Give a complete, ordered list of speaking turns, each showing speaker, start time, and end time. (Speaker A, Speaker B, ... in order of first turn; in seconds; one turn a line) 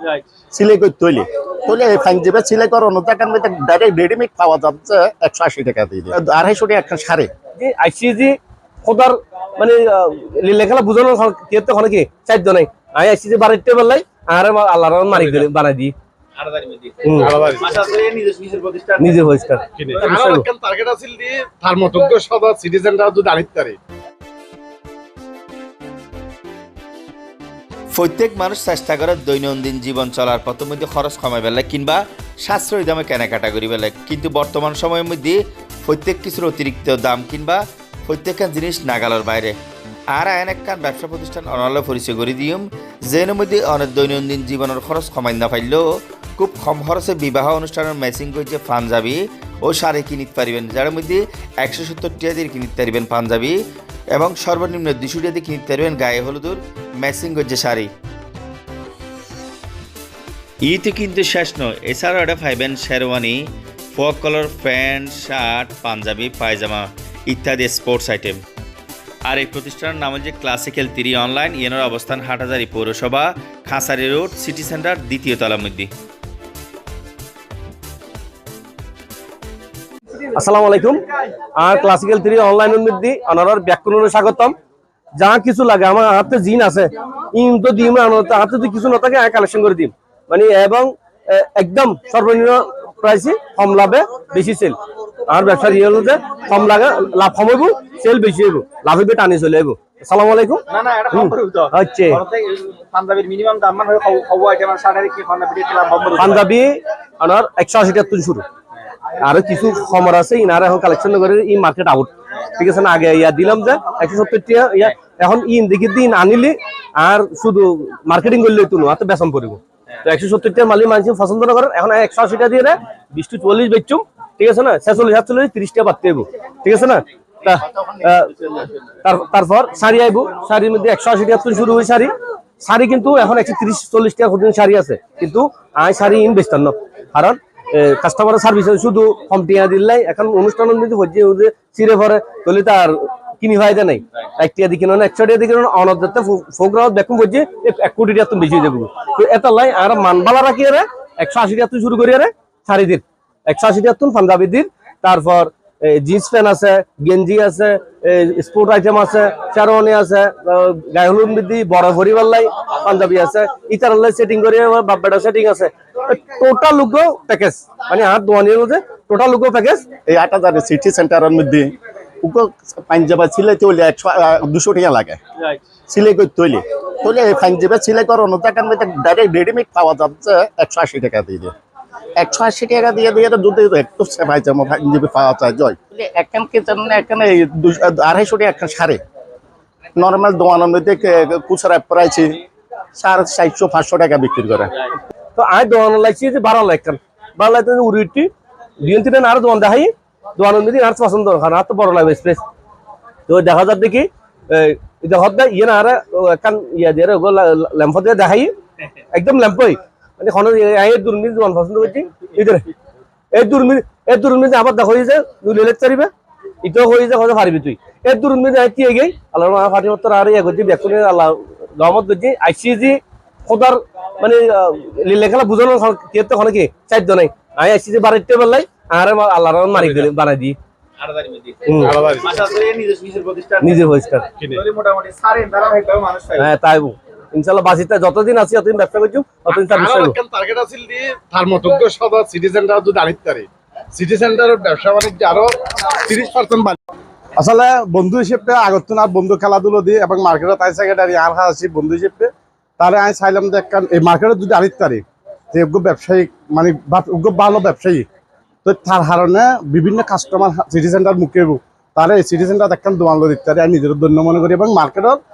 Speaker A: 0.5-7.3
Speaker B: 7.5-15.9
Speaker C: 15.1-15.4
Speaker D: 16.4-19.2
Speaker B: 17.0-17.4
Speaker C: 17.1-17.7
Speaker B: 19.0-20.5
Speaker C: 19.8-23.8
Speaker E: 27.9-39.5
Speaker E: 40.1-45.8
Speaker E: 46.4-53.5
Speaker E: 54.1-57.9
Speaker E: 60.6-63.4
Speaker E: 63.9-68.4
Speaker E: 69.2-75.9
Speaker B: 80.3-84.5
Speaker B: 85.1-102.2
Speaker D: 100.7-106.5
Speaker B: 106.2-108.4
Speaker B: 109.2-128.5
Speaker A: 127.5-128.0
Speaker B: 129.0-169.8
Speaker A: 170.1-175.2
Speaker A: 175.9-181.5
Speaker A: 182.2-189.0
Speaker A: 189.9-192.4
Speaker A: 192.9-194.7
Speaker B: 195.3-198.3
Speaker B: 198.8-202.4
Speaker B: 203.3-208.5
Speaker B: 209.1-212.7
Speaker B: 213.3-216.1
Speaker B: 216.6-230.6
Speaker D: 231.0-233.8
Speaker B: 231.7-232.0
Speaker C: 231.8-232.3
Speaker B: 233.6-234.3
Speaker D: 234.4-236.5
Speaker B: 236.4-240.2
Speaker C: 239.5-246.8
Speaker C: 247.4-258.1
Speaker C: 258.6-265.2